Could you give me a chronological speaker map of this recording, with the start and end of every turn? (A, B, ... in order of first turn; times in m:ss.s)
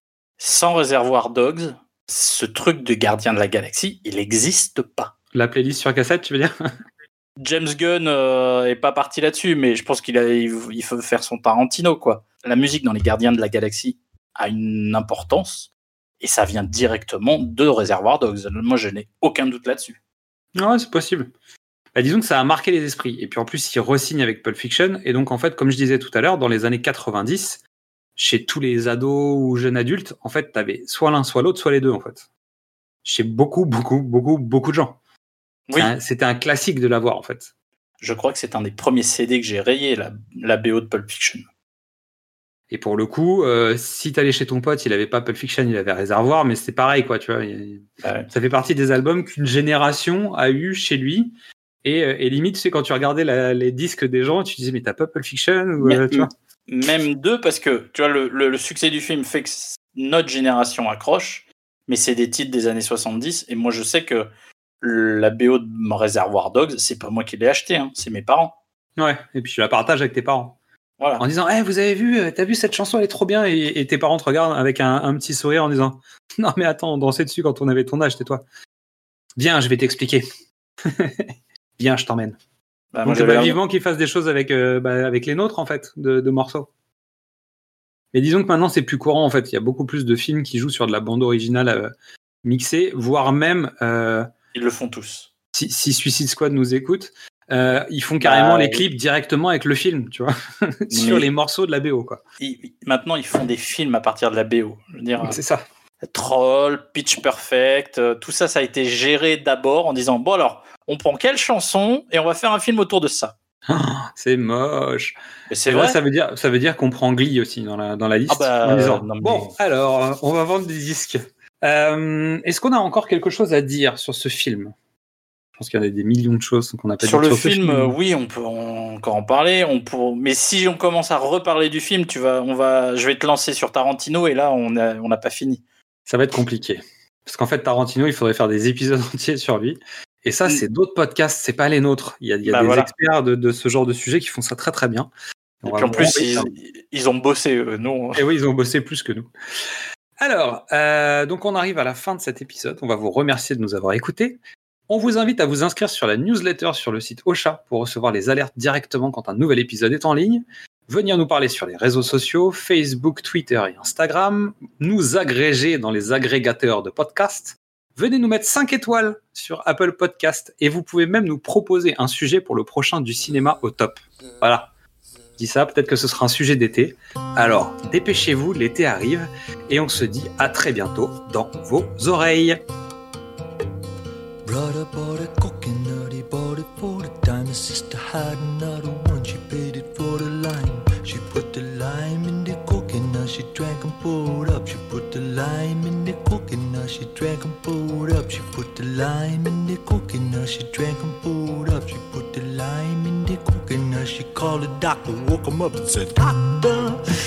0:00.4-0:05.1 A
0:05.3-0:06.5 B
0:07.4-0:15.7 A
0:16.2-0:20.0 A
0:20.6-0:21.3 B
0:21.9-0:27.6 B
0:28.2-0:32.3 B
0:33.0-0:35.0 B
0:35.8-0:37.5 B
0:38.0-0:41.4 A
0:42.7-0:56.3 B
0:48.0-0:48.3 A
0:55.8-1:04.3 A
1:04.8-1:08.5 A
1:09.0-1:10.6 B
1:11.2-1:18.4 B
1:19.4-1:20.3 B
1:20.8-1:22.4 B
1:22.9-1:23.6 A
1:23.0-1:26.7 B
1:28.1-1:31.9 B
1:32.4-1:34.3 B
1:34.5-1:35.3 A
1:35.5-1:42.2 B
1:38.2-1:38.8 A
1:40.9-1:41.3 A
1:42.4-1:45.4 A
1:45.2-1:45.6 B
1:46.0-1:53.3 A
1:53.7-2:04.8 B
1:55.5-1:56.0 A
1:58.3-1:59.5 A
2:05.6-2:07.9 B
2:07.0-2:15.6 A
2:16.1-2:25.1 B
2:22.4-2:22.9 A
2:25.6-2:26.5 B
2:25.6-2:28.2 A
2:28.2-2:29.3 B
2:30.2-2:54.7 B
2:55.4-3:02.6 B
3:04.4-3:27.0 C